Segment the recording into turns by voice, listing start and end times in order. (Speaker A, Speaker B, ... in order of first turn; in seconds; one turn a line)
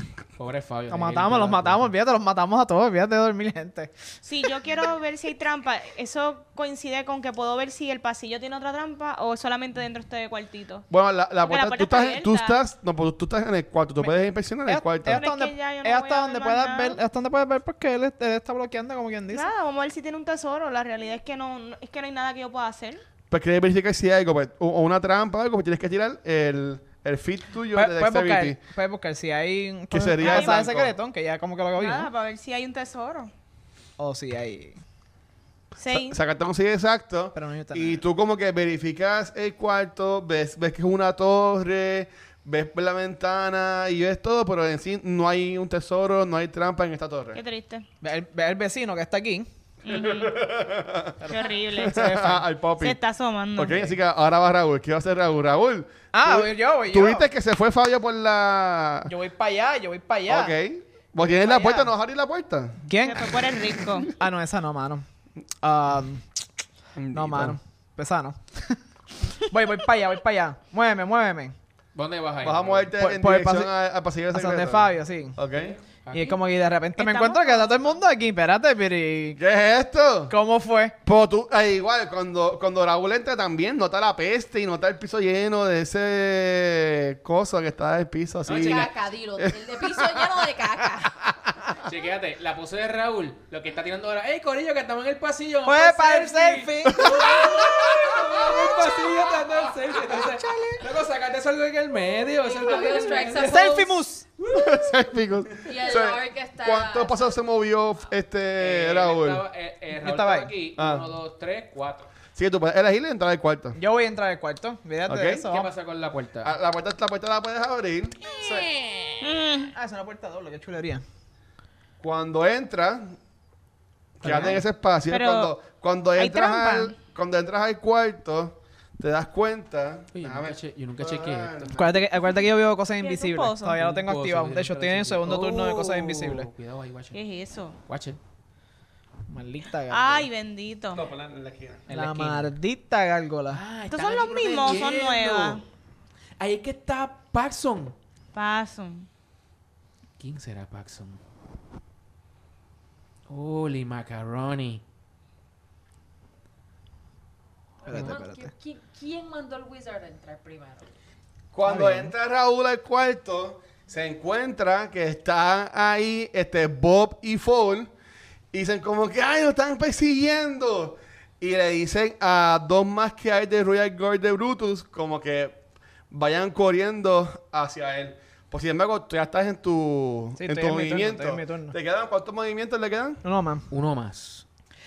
Speaker A: 0.4-1.9
Speaker B: 0.9-3.9
Speaker C: 4.2-10.9
Speaker D: 10.9-15.2
Speaker C: 11.4-12.6
Speaker B: 14.7-19.5
Speaker C: 15.1-17.0
Speaker C: 19.3-23.0
Speaker D: 23.3-28.6
Speaker B: 27.7-32.1
Speaker D: 29.9-30.9
Speaker C: 30.2-30.6
Speaker C: 31.8-33.3
Speaker B: 34.0-34.8
Speaker C: 35.8-36.2
Speaker D: 35.9-47.4
Speaker B: 37.3-38.0
Speaker C: 47.4-47.9
Speaker B: 48.0-49.5
Speaker C: 49.9-50.4
Speaker D: 49.9-51.2
Speaker B: 51.2-52.5
Speaker C: 51.3-52.1
Speaker D: 51.8-53.0
Speaker C: 52.8-53.9
Speaker D: 53.6-59.1
Speaker B: 56.1-57.3
Speaker B: 59.1-60.5
Speaker D: 60.3-62.9
Speaker B: 61.2-61.9
Speaker B: 62.9-63.3
Speaker C: 63.0-64.1
Speaker B: 64.1-65.0
Speaker B: 65.6-66.3
Speaker D: 67.0-67.6
Speaker B: 67.1-68.8
Speaker B: 69.3-71.5
Speaker A: 72.0-72.9
Speaker D: 72.4-75.8
Speaker B: 73.0-73.7
Speaker B: 74.3-75.4
Speaker A: 76.1-76.3
Speaker B: 76.1-79.4
Speaker C: 77.0-77.9
Speaker D: 79.4-80.3
Speaker B: 80.3-81.0
Speaker D: 81.0-90.0
Speaker A: 88.5-88.9
Speaker E: 88.5-91.2
Speaker A: 91.8-103.6
Speaker B: 95.6-97.4
Speaker D: 96.9-97.3
Speaker E: 98.2-99.8
Speaker B: 100.1-100.8
Speaker E: 102.4-104.0
Speaker B: 103.1-104.2
Speaker A: 104.4-104.8
Speaker D: 104.5-109.5
Speaker E: 105.7-107.4
Speaker A: 108.6-112.1
Speaker B: 110.0-110.5
Speaker D: 110.8-111.1
Speaker D: 112.3-113.8
Speaker B: 113.8-115.7
Speaker D: 115.1-115.5
Speaker A: 115.5-116.6
Speaker D: 116.4-118.7
Speaker A: 118.4-119.2
Speaker C: 119.2-119.7
Speaker B: 119.7-121.0
Speaker D: 122.0-123.2
Speaker B: 124.2-124.6
Speaker D: 124.2-132.0
Speaker C: 125.1-125.5
Speaker C: 126.2-126.9
Speaker A: 130.1-131.7
Speaker B: 131.7-136.5
Speaker C: 133.0-133.8
Speaker A: 133.8-137.2
Speaker C: 137.1-137.8
Speaker A: 137.9-138.2
Speaker B: 139.3-140.3
Speaker C: 139.9-141.0
Speaker D: 140.9-141.8
Speaker A: 141.9-142.5
Speaker B: 141.9-143.6
Speaker A: 143.5-145.6
Speaker C: 143.9-145.6
Speaker A: 146.4-147.9
Speaker C: 148.3-149.1
Speaker A: 150.2-151.2
Speaker A: 153.3-154.8
Speaker E: 157.8-160.9
Speaker B: 157.9-158.5
Speaker D: 161.5-167.9
Speaker B: 161.6-162.1
Speaker D: 168.5-183.2
Speaker B: 180.4-181.8
Speaker B: 183.2-183.7
Speaker A: 183.7-184.4